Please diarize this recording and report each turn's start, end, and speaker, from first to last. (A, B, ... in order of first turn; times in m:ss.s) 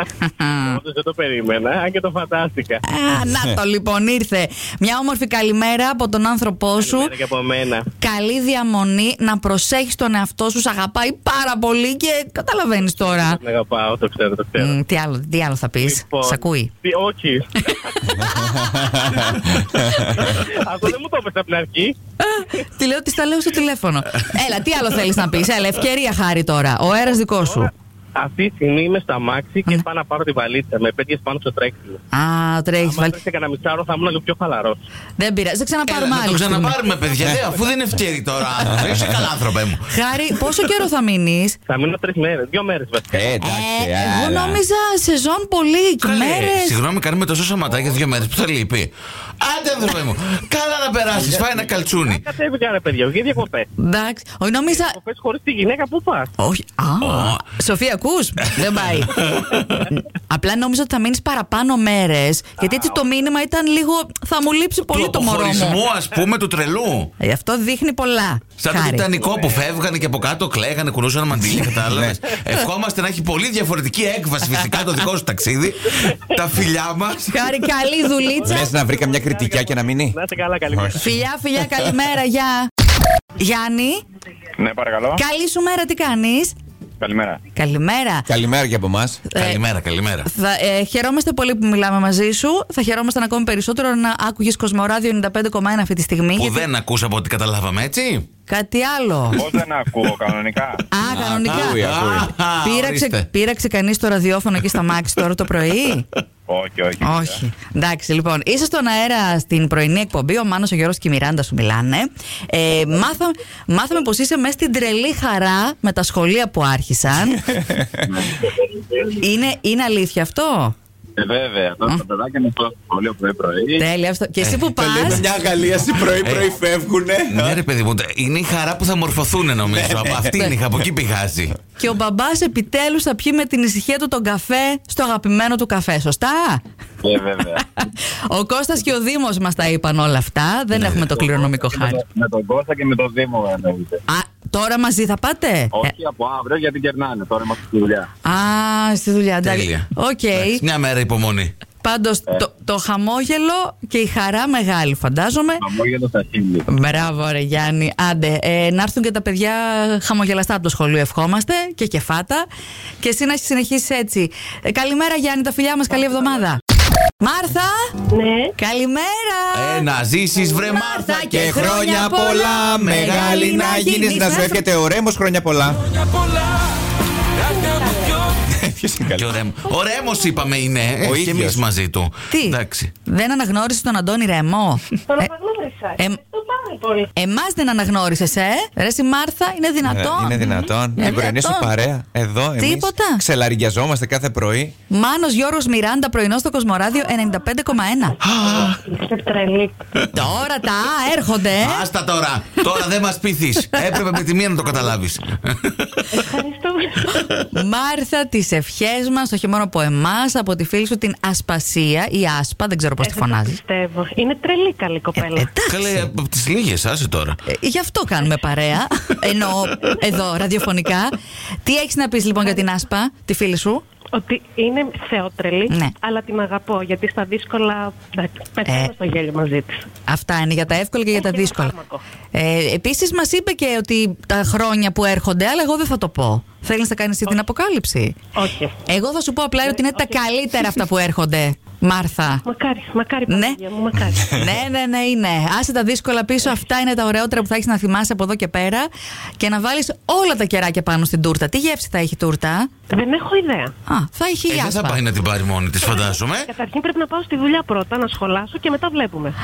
0:00.2-0:00.8 A
0:00.6-0:02.8 B
0:02.8-0:07.1 A
0:03.2-0:03.6 C
0:06.8-0:07.9 B
0:08.0-0:13.4 A
0:12.8-0:14.8 B
0:14.6-0:16.7 A
0:15.8-0:17.6 B
0:17.6-0:19.4 A
0:18.2-0:20.2 C
0:20.1-0:22.0 B
0:22.2-0:27.7 A
0:28.2-0:32.0 B
0:32.1-0:33.2 A
0:32.8-0:34.8 B
0:35.2-0:36.8 A
0:35.8-0:39.8 D
0:38.7-0:39.1 C
0:39.9-0:41.6 A
0:41.7-0:43.3 B
0:43.1-0:44.6 C
0:43.4-0:46.8 A
0:46.0-0:52.2 D
0:47.7-0:48.0 B
0:51.1-0:51.5 B
0:52.0-0:53.7 B
0:53.8-0:55.0 A
0:54.7-0:56.3 B
0:56.4-0:59.2 A
0:57.0-0:57.4 D
0:59.1-0:59.9 D
0:59.8-1:05.8 A
1:02.6-1:03.1 B
1:04.8-1:07.1 D
1:07.2-1:09.1 A
1:08.6-1:17.5 D
1:09.2-1:09.6 B
1:11.8-1:12.2 C
1:17.3-1:18.7 A
1:18.3-1:21.1 B
1:18.4-1:20.2 C
1:20.7-1:21.0 C
1:21.0-1:22.7 A
1:23.4-1:24.0 A
1:24.6-1:25.2 E
1:25.1-1:26.5 A
1:27.0-1:27.4 E
1:27.5-1:28.3 A
1:28.3-1:29.2 C
1:29.3-1:29.6 A
1:29.3-1:30.3 D
1:30.2-1:36.7 A
1:36.4-1:38.3 D
1:38.5-1:39.4 A
1:39.4-1:40.8 E
1:40.9-1:41.8 A
1:41.1-1:42.3 C
1:41.1-1:43.2 D
1:42.6-1:46.0 A
1:46.5-1:47.4 E
1:47.0-1:57.5 A
1:57.4-1:58.0 C
1:58.0-1:59.2 E
1:59.2-2:00.7 A
2:01.2-2:03.8 E
2:03.8-2:05.2 A
2:04.8-2:07.6 C
2:06.2-2:06.5 D
2:07.3-2:11.6 D
2:09.6-2:10.5 C
2:11.8-2:16.6 A
2:17.0-2:17.6 E
2:17.6-2:22.0 A
2:20.7-2:21.2 D
2:21.2-2:24.0 E
2:24.1-2:25.9 A
2:25.7-2:28.1 E
2:28.2-2:30.6 A
2:29.4-2:31.5 D
2:31.8-2:35.6 A
2:35.6-2:36.6 E
2:36.7-2:42.4 A
2:43.0-2:46.6 A
2:47.2-2:47.8 A
2:48.1-2:48.5 F
2:48.6-2:49.8 A
2:49.5-2:51.7 D
2:50.7-2:54.6 A
2:51.3-2:55.9 C
2:52.8-2:53.8 D
2:57.4-2:58.2 F
2:58.4-2:59.3 C
2:59.1-3:02.9 D
3:01.0-3:01.6 C
3:02.3-3:05.3 A
3:05.1-3:07.1 F
3:07.1-3:11.7 A
3:09.8-3:14.7 C
3:12.6-3:13.2 A
3:14.9-3:18.2 A
3:18.2-3:18.8 D
3:18.4-3:19.8 F
3:20.1-3:21.9 A
3:21.5-3:26.1 D
3:26.1-3:27.5 F
3:27.2-3:33.6 A
3:33.0-3:35.5 F
3:35.2-3:36.1 A
3:35.6-3:37.4 D
3:37.5-3:41.1 A
3:41.6-3:43.8 A
3:44.1-3:49.8 F
3:45.7-3:45.9 A
3:48.6-3:48.9 A
3:50.1-3:51.7 A
3:51.1-3:52.0 F
3:52.3-3:58.2 A
3:58.3-3:58.8 F
3:58.8-4:02.4 A
3:59.7-4:00.1 F
4:02.4-4:04.4 F
4:03.3-4:03.6 A
4:04.2-4:08.9 A
4:09.4-4:12.7 A
4:12.9-4:13.7 F
4:13.9-4:15.0 A
4:14.5-4:16.5 D
4:15.8-4:19.4 F